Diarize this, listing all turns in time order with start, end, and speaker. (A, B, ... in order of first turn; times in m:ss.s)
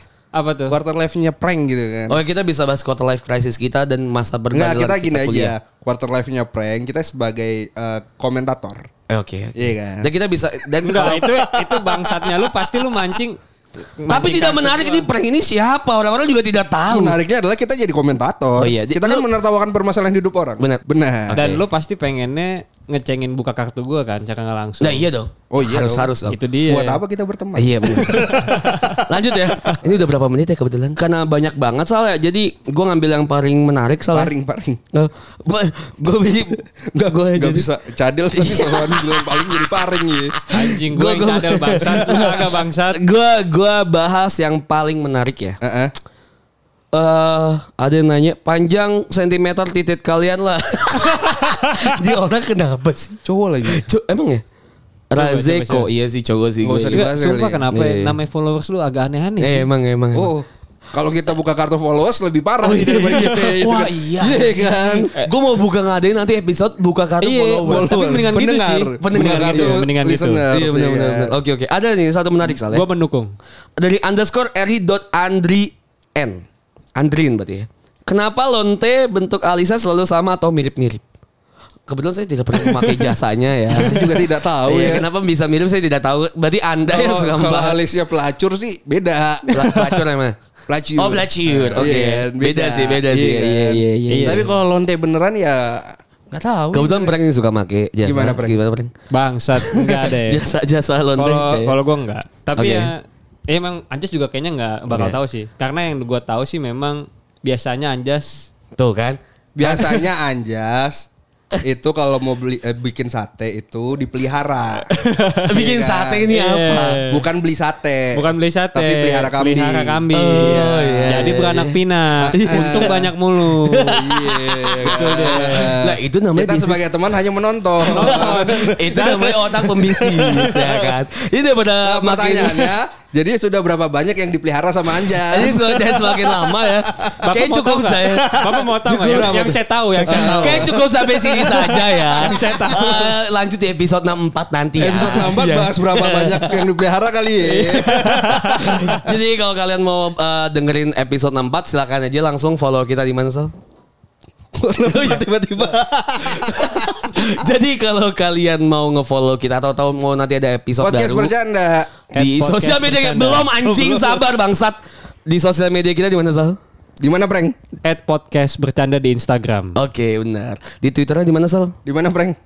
0:00.3-0:00.8 A
0:00.7-0:02.2 B
0:02.1-0:05.5 C
0:04.5-0:08.9 B
0:09.1-0:11.4 C
0:09.6-0:10.1 B
0:10.8-0:15.1 A
0:11.2-0:12.9 B
0:14.1-0:17.2 C
0:16.9-0:21.4 B
0:18.6-0:19.3 C
0:20.6-0:21.6 C
0:21.3-0:25.1 A
0:24.8-0:26.4 C
0:25.5-0:29.0 B
0:26.3-0:27.0 A
0:27.5-0:34.3 C
0:28.1-0:28.9 A
0:34.1-0:34.8 B
0:34.9-0:37.7 C
0:36.8-0:40.4 B
0:38.3-0:39.3 C
0:40.4-0:45.6 C
0:40.5-0:43.0 A
0:45.6-0:45.9 B
0:46.9-0:54.4 C
0:53.2-0:53.9 B
0:55.1-0:57.1 C
0:55.1-0:55.9 A
0:56.6-0:57.6 B
0:56.9-0:59.7 A
0:57.7-0:58.1 C
0:59.4-1:00.3 C
1:00.1-1:05.1 B
1:02.6-1:08.1 C
1:07.2-1:10.4 A
1:07.6-1:11.4 B
1:09.0-1:09.8 C
1:10.5-1:12.8 C
1:12.5-1:13.3 A
1:13.8-1:16.4 C
1:17.0-1:21.0 C
1:21.9-1:27.8 C
1:22.6-1:23.1 B
1:23.7-1:25.0 B
1:26.8-1:30.1 B
1:29.5-1:30.4 C
1:30.7-1:37.2 B
1:31.0-1:34.4 C
1:34.1-1:34.4 A
1:36.7-1:38.9 C
1:38.0-1:38.6 B
1:39.1-1:40.4 A
1:39.5-1:41.8 C
1:41.2-1:48.5 A
1:42.5-1:42.9 C
1:44.9-1:45.2 C
1:48.8-1:50.0 C
1:49.6-1:51.1 B
1:51.6-1:54.9 B
1:54.9-1:55.5 A
1:55.5-1:57.0 C
1:55.5-1:56.3 B
1:56.3-1:57.2 A
1:57.0-2:01.5 B
1:58.1-2:04.0 A
2:00.1-2:03.0 C
2:02.2-2:03.1 B
2:03.6-2:06.8 C
2:03.8-2:10.7 B
2:04.8-2:05.8 A
2:07.8-2:12.8 C
2:07.8-2:10.5 A
2:11.8-2:17.1 B
2:15.2-2:26.6 C
2:17.2-2:23.1 A
2:18.3-2:22.0 B
2:24.8-2:28.9 B
2:27.4-2:29.0 A
2:28.6-2:33.5 C
2:34.6-2:36.9 B
2:34.8-2:35.2 C
2:36.2-2:41.3 C
2:40.8-2:42.0 B
2:42.1-2:46.6 C
2:42.1-2:43.5 A
2:43.6-2:44.2 B
2:47.0-2:47.6 B
2:47.8-2:49.8 A
2:49.7-2:51.8 C
2:51.8-2:52.4 B